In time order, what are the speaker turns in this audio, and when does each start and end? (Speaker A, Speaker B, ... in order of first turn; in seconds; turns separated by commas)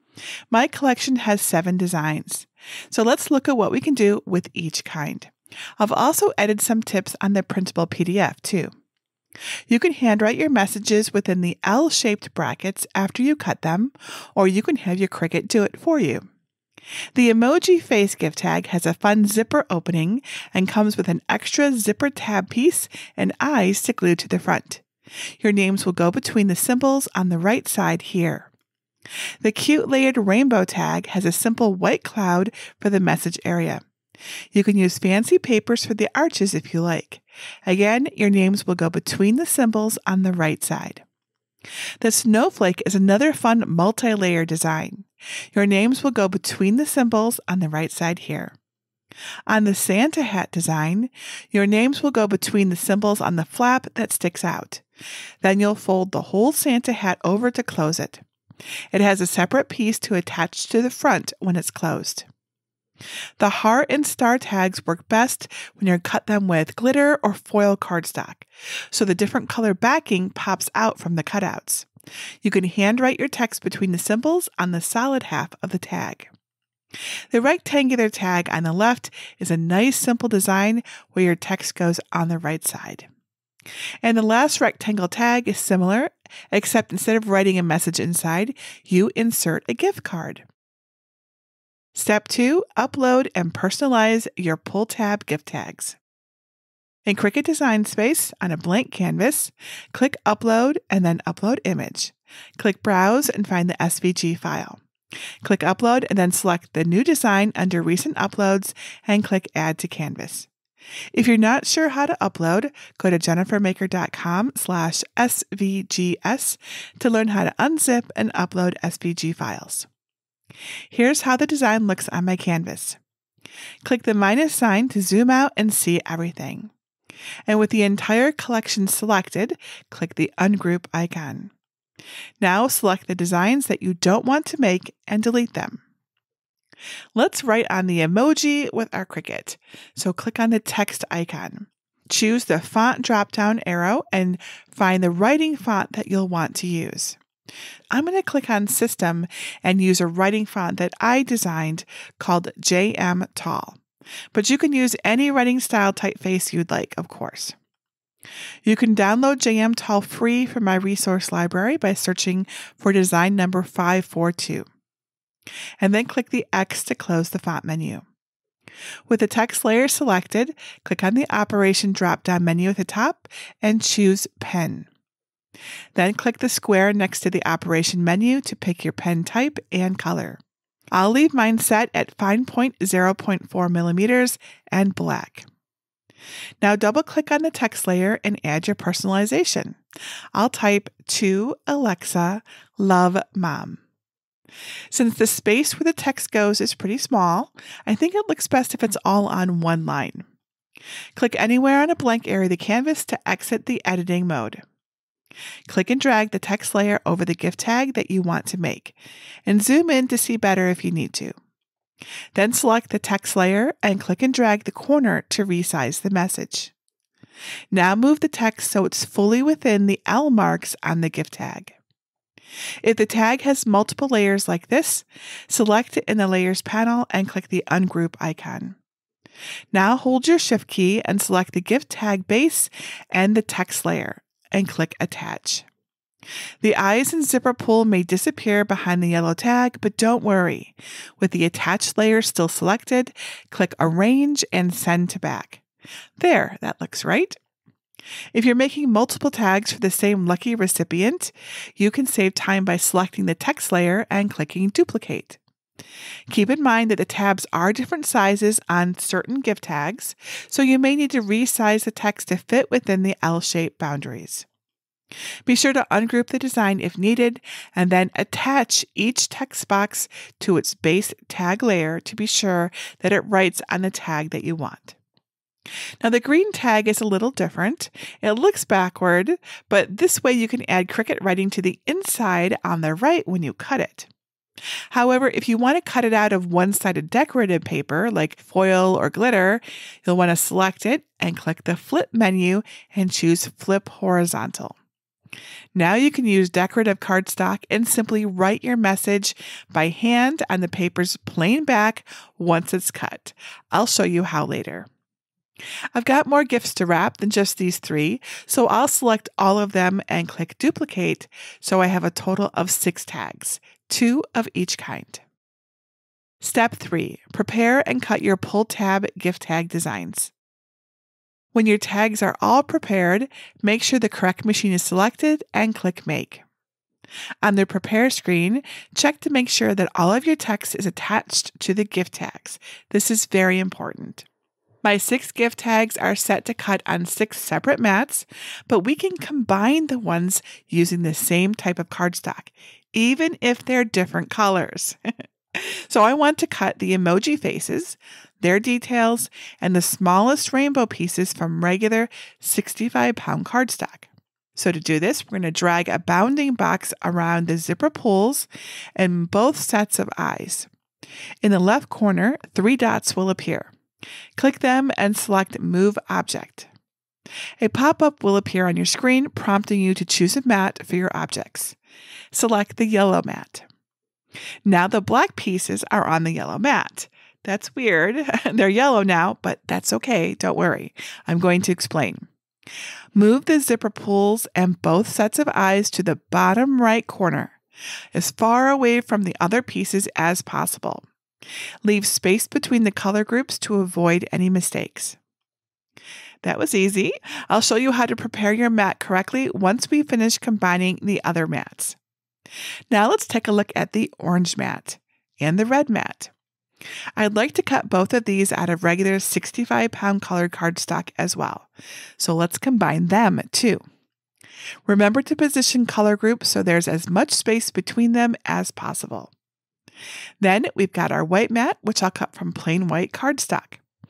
Speaker A: 0.5-8.7, Speaker A: 9.7-16.2, Speaker A: 17.1-24.8, Speaker A: 25.4-28.5, Speaker A: 29.4-33.8, Speaker A: 34.5-41.0, Speaker A: 42.0-48.5, Speaker A: 49.5-54.8, Speaker A: 55.4-58.2, Speaker A: 58.9-62.3, Speaker A: 63.4-71.9, Speaker A: 72.4-76.3, Speaker A: 77.3-83.1, Speaker A: 84.0-90.4, Speaker A: 91.9-96.0, Speaker A: 97.1-104.8, Speaker A: 105.4-110.5, Speaker A: 111.1-119.9, Speaker A: 120.9-123.0, Speaker A: 123.8-126.7, Speaker A: 127.5-131.5, Speaker A: 132.4-135.8, Speaker A: 137.2-147.2, Speaker A: 147.9-153.8, Speaker A: 154.3-157.6, Speaker A: 158.6-164.7, Speaker A: 165.8-168.0, Speaker A: 169.1-174.9, Speaker A: 175.9-180.4, Speaker A: 180.9-185.5, Speaker A: 186.6-189.8, Speaker A: 190.3-193.8, Speaker A: 194.9-200.3, Speaker A: 201.1-204.6, Speaker A: 205.7-208.9, Speaker A: 209.4-211.3, Speaker A: 212.3-216.7, Speaker A: 217.7-221.8, Speaker A: 222.8-228.8, Speaker A: 229.7-235.7, Speaker A: 236.6-245.6, Speaker A: 246.2-247.4, Speaker A: 248.3-255.4, Speaker A: 256.3-264.5, Speaker A: 265.4-275.0, Speaker A: 276.0-284.1, Speaker A: 284.9-294.8, Speaker A: 295.7-304.9, Speaker A: 305.9-315.2, Speaker A: 316.4-320.3, Speaker A: 321.5-326.4, Speaker A: 327.4-334.2, Speaker A: 334.8-345.0, Speaker A: 345.6-360.7, Speaker A: 361.4-363.7, Speaker A: 364.4-366.7, Speaker A: 367.6-371.8, Speaker A: 372.3-373.7, Speaker A: 374.7-382.3, Speaker A: 383.1-387.6, Speaker A: 388.1-391.1, Speaker A: 391.8-395.2, Speaker A: 396.4-402.0, Speaker A: 402.9-406.3, Speaker A: 407.2-413.8, Speaker A: 414.9-419.3, Speaker A: 420.4-423.8